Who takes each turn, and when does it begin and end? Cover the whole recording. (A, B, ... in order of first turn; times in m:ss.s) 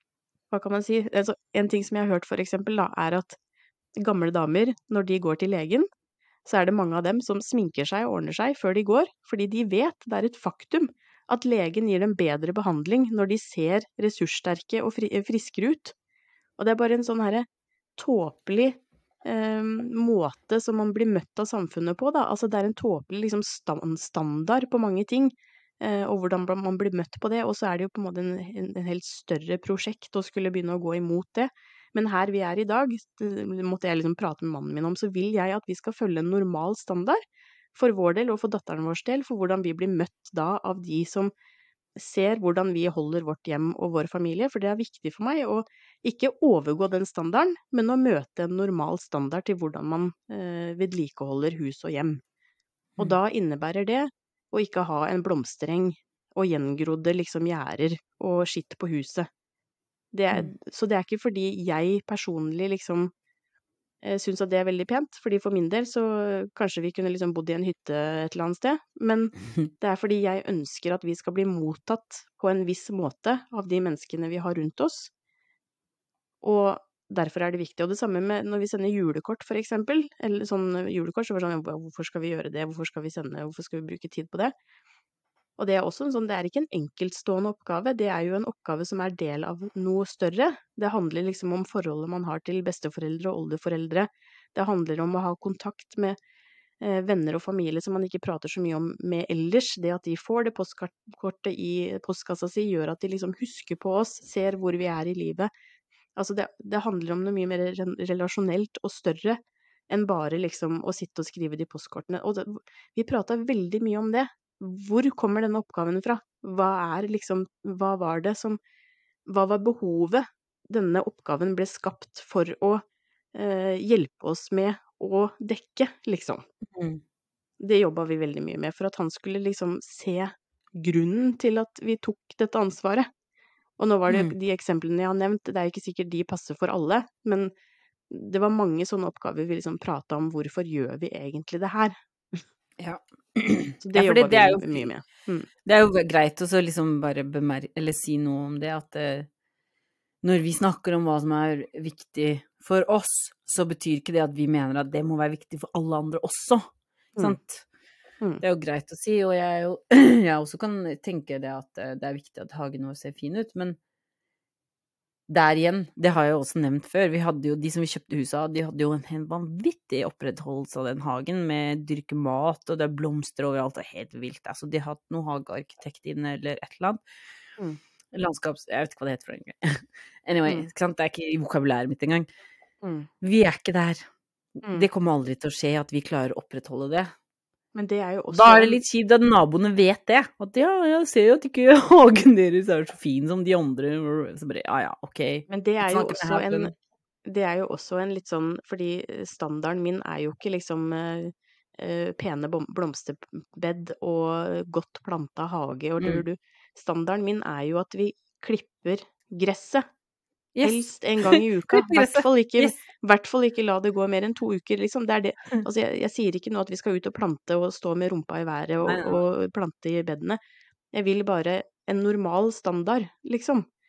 0:00.5-0:03.4 A
0:04.0-0:05.9 A
0:06.4-0:15.9 A
0:16.6-0:17.4 A
0:18.0-0:37.2 A
0:37.7-0:41.3 A
0:42.0-0:52.2 A
0:53.0-0:59.3 A
1:00.1-1:03.1 A
1:04.0-1:15.1 A
1:16.4-1:24.5 A
1:25.6-1:36.2 A
1:36.8-1:45.5 A
1:46.2-1:58.6 A
1:59.3-2:06.4 A
2:06.7-2:07.0 B
2:07.6-2:13.1 A
2:13.8-2:17.5 A
2:14.1-2:14.3 B
2:18.1-2:22.4 A
2:22.8-2:24.9 B
2:23.8-2:25.5 A
2:25.6-2:29.3 B
2:30.2-2:37.7 B
2:38.4-2:43.8 B
2:45.3-2:57.0 B
2:58.1-3:02.3 B
3:02.8-3:03.1 A
3:03.2-3:04.0 B
3:04.6-3:07.1 B
3:07.7-3:08.8 A
3:08.3-3:16.7 B
3:15.5-3:16.7 A
3:17.2-3:29.8 A
3:26.0-3:26.2 B
3:30.6-3:32.8 B
3:30.6-3:40.4 A
3:38.8-3:39.2 B
3:40.9-3:43.6 A